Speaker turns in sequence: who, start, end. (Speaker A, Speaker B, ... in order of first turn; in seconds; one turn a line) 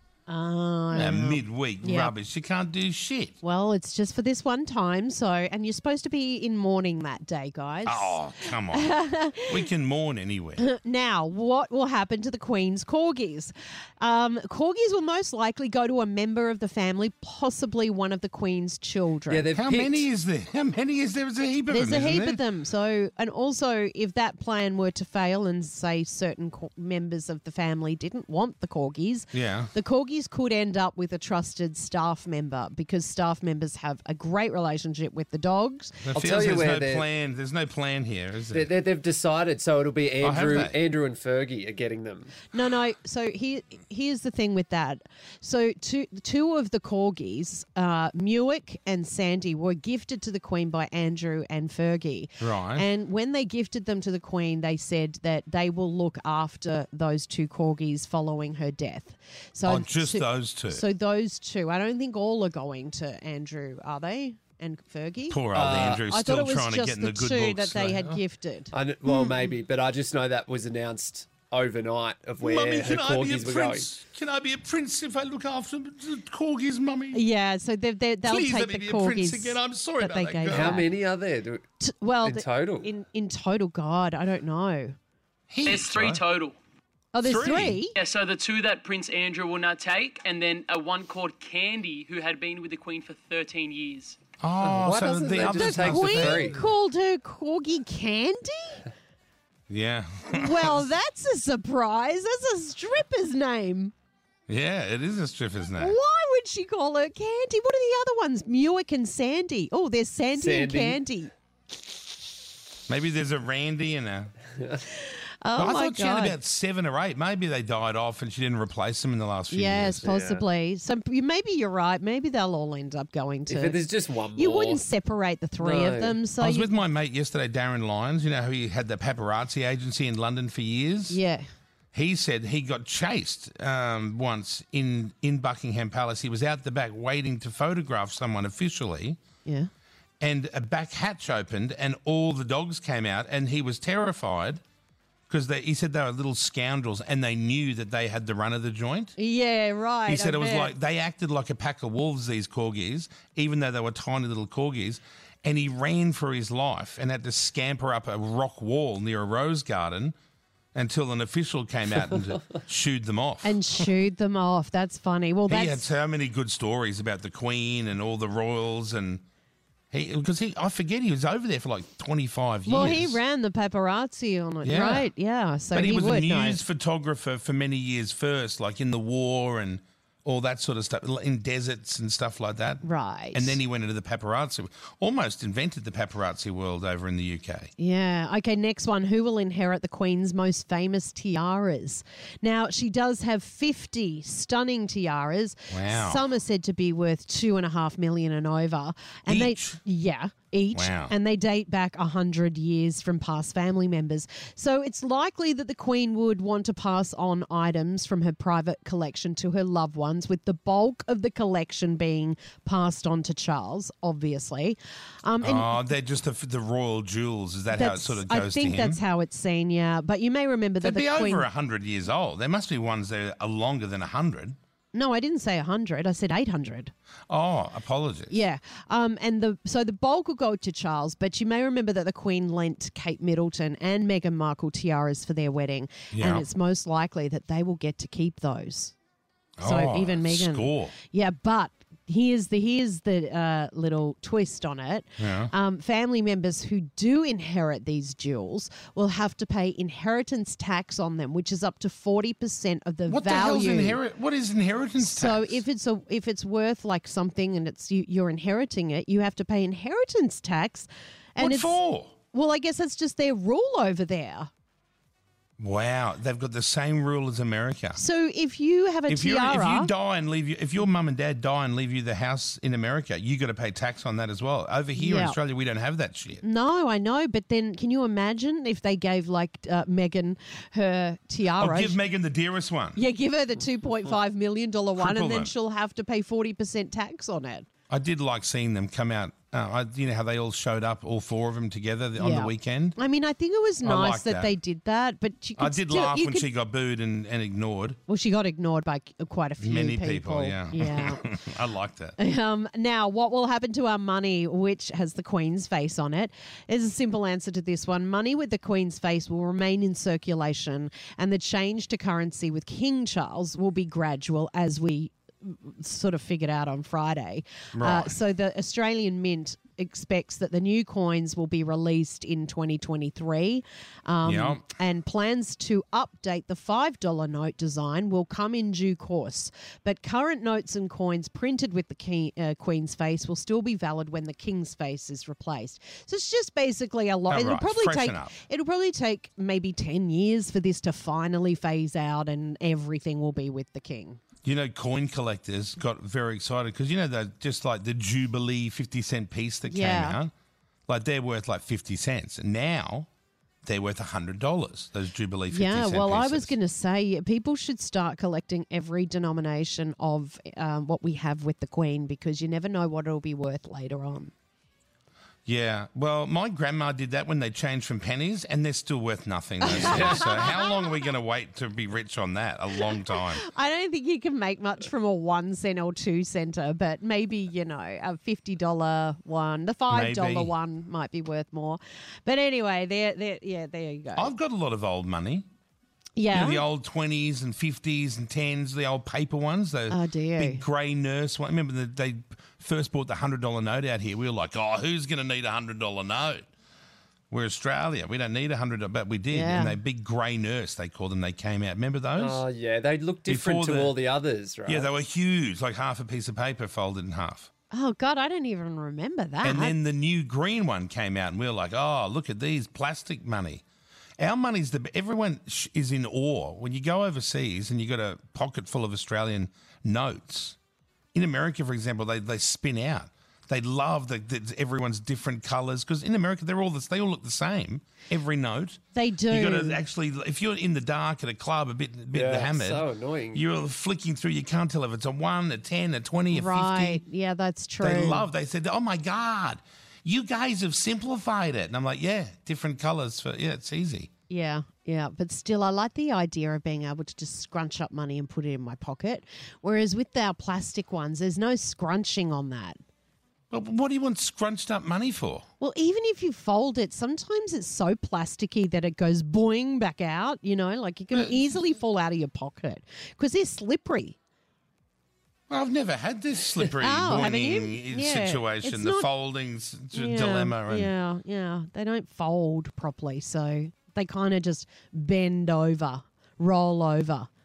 Speaker A: 0.3-2.1
Speaker B: 0.9-3.4
Speaker A: 3.4-9.6
Speaker B: 7.8-10.6
Speaker A: 10.6-19.5
Speaker C: 19.3-20.1
Speaker B: 19.6-22.4
Speaker A: 21.7-36.0
Speaker B: 29.3-29.7
Speaker B: 36.0-38.7
Speaker C: 36.1-37.1
Speaker C: 38.5-42.4
Speaker B: 40.2-40.8
Speaker A: 42.5-68.7
Speaker B: 52.4-52.9
Speaker B: 59.6-60.9
Speaker B: 65.3-68.2
Speaker C: 65.5-66.0
Speaker C: 68.7-73.9
Speaker B: 72.4-77.2
Speaker A: 77.1-80.9
Speaker B: 78.2-80.8
Speaker C: 80.5-81.6
Speaker A: 81.8-85.0
Speaker C: 82.2-82.9
Speaker B: 85.5-86.2
Speaker D: 85.6-86.6
Speaker A: 87.1-88.0
Speaker B: 87.2-87.8
Speaker D: 87.9-94.2
Speaker B: 94.4-96.6
Speaker C: 94.6-96.6
Speaker A: 95.4-98.8
Speaker B: 99.7-100.9
Speaker A: 100.3-103.9
Speaker B: 104.5-106.0
Speaker A: 105.8-111.3
Speaker C: 110.3-111.0
Speaker B: 112.9-114.3
Speaker A: 115.4-116.4
Speaker B: 115.6-120.0
Speaker A: 119.5-123.8
Speaker C: 120.0-120.4
Speaker C: 123.5-124.8
Speaker A: 124.3-126.7
Speaker C: 125.6-126.2
Speaker B: 126.4-131.2
Speaker A: 131.1-131.4
Speaker B: 131.9-139.2
Speaker A: 139.4-139.7
Speaker B: 140.2-144.6
Speaker B: 145.3-149.1
Speaker A: 149.2-150.7
Speaker B: 150.1-160.1
Speaker B: 160.8-163.6
Speaker A: 163.4-165.9
Speaker B: 165.5-169.2
Speaker B: 169.9-173.2
Speaker A: 172.7-176.6
Speaker B: 174.6-175.1
Speaker B: 175.7-182.8
Speaker A: 182.8-183.6
Speaker B: 183.3-187.7
Speaker A: 187.8-215.8
Speaker B: 195.7-196.2
Speaker B: 199.3-199.8
Speaker B: 200.7-201.1
Speaker B: 215.4-219.0
Speaker A: 217.7-221.5
Speaker B: 220.8-224.6
Speaker A: 224.9-226.9
Speaker B: 227.3-228.4
Speaker A: 228.3-238.9
Speaker B: 236.1-236.4
Speaker B: 239.6-240.9
Speaker A: 239.6-254.0
Speaker B: 245.2-245.5
Speaker B: 253.1-255.6
Speaker A: 255.0-261.8
Speaker B: 261.4-262.1
Speaker A: 262.3-264.5
Speaker B: 265.6-268.0
Speaker A: 267.9-269.9
Speaker B: 269.1-276.4
Speaker A: 274.9-275.4
Speaker A: 276.4-282.0
Speaker B: 281.6-283.0
Speaker A: 282.9-287.7
Speaker B: 285.0-285.5
Speaker B: 287.9-293.0
Speaker A: 292.2-296.5
Speaker B: 293.8-294.5
Speaker B: 295.6-298.0
Speaker A: 298.1-301.2
Speaker B: 299.6-302.2
Speaker A: 302.2-344.2
Speaker B: 317.8-318.1
Speaker B: 324.2-324.6
Speaker B: 337.3-338.4
Speaker B: 344.4-350.3
Speaker A: 349.7-350.2
Speaker B: 350.9-353.1
Speaker B: 353.6-356.5
Speaker A: 355.5-364.3
Speaker B: 365.4-373.4
Speaker A: 369.6-370.9
Speaker A: 372.8-384.3
Speaker B: 379.9-380.5
Speaker B: 384.2-385.4
Speaker A: 386.2-386.6
Speaker B: 386.3-396.5
Speaker A: 389.9-390.7
Speaker B: 397.3-402.4
Speaker A: 399.3-399.8
Speaker C: 402.2-404.9
Speaker B: 403.3-403.9
Speaker B: 404.7-407.5
Speaker A: 407.7-409.8
Speaker B: 409.4-413.6
Speaker B: 414.2-420.6
Speaker B: 421.1-437.0
Speaker A: 428.9-429.8
Speaker C: 432.1-433.4
Speaker A: 436.3-438.3
Speaker B: 437.8-444.1
Speaker A: 444.3-452.8
Speaker B: 453.5-455.4
Speaker A: 455.6-464.2
Speaker B: 461.1-461.4
Speaker B: 465.5-470.9
Speaker A: 466.6-469.1
Speaker A: 469.9-477.3